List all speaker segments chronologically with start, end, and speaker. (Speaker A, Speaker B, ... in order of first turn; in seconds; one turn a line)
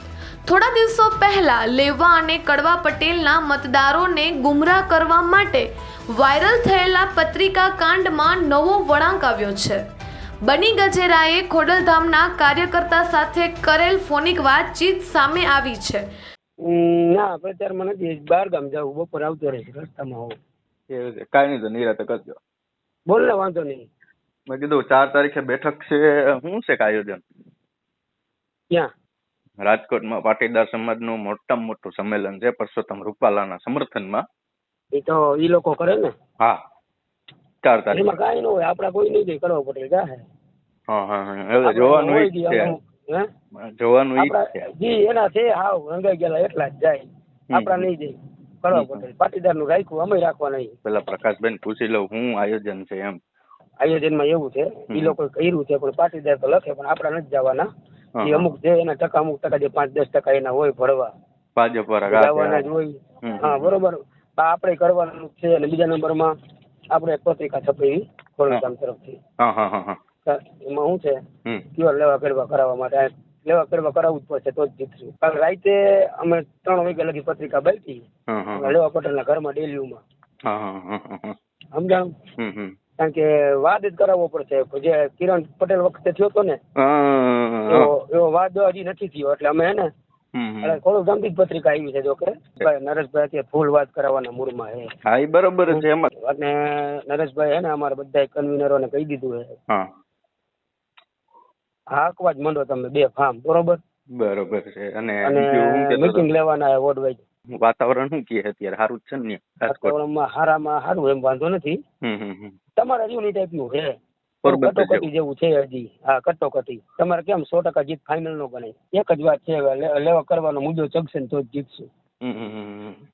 Speaker A: 0.5-9.8
Speaker A: 10.4-16.1
Speaker B: 16.6-20.3
Speaker C: 20.9-22.4
Speaker B: 23.1-23.9
Speaker C: 24.5-27.2
Speaker C: 29.6-34.2
Speaker B: 34.9-36.1
Speaker C: 37.6-38.2
Speaker B: 37.9-40.2
Speaker C: 40.9-42.7
Speaker B: 41.6-43.3
Speaker C: 43.6-44.5
Speaker B: 44.2-50.7
Speaker C: 47.5-47.9
Speaker C: 48.7-49.0
Speaker C: 50.8-53.2
Speaker B: 53.8-57.6
Speaker C: 54.9-55.1
Speaker C: 58.1-58.5
Speaker B: 58.2-61.1
Speaker C: 61.5-62.7
Speaker B: 62.1-66.3
Speaker C: 63.2-63.7
Speaker B: 66.9-69.2
Speaker C: 69.4-70.0
Speaker B: 70.2-71.2
Speaker B: 71.7-78.0
Speaker C: 78.3-78.8
Speaker B: 78.5-80.0
Speaker C: 80.4-81.4
Speaker B: 81.7-82.2
Speaker C: 82.4-82.8
Speaker B: 83.0-86.6
Speaker C: 86.8-87.9
Speaker B: 87.7-89.9
Speaker C: 90.3-90.8
Speaker B: 90.6-94.9
Speaker C: 95.0-96.1
Speaker B: 95.7-99.6
Speaker B: 101.9-103.8
Speaker C: 104.2-106.3
Speaker B: 105.2-107.2
Speaker C: 107.5-110.0
Speaker B: 109.7-111.8
Speaker C: 112.0-112.6
Speaker B: 112.8-114.0
Speaker C: 114.4-115.1
Speaker B: 114.5-121.9
Speaker C: 122.2-123.0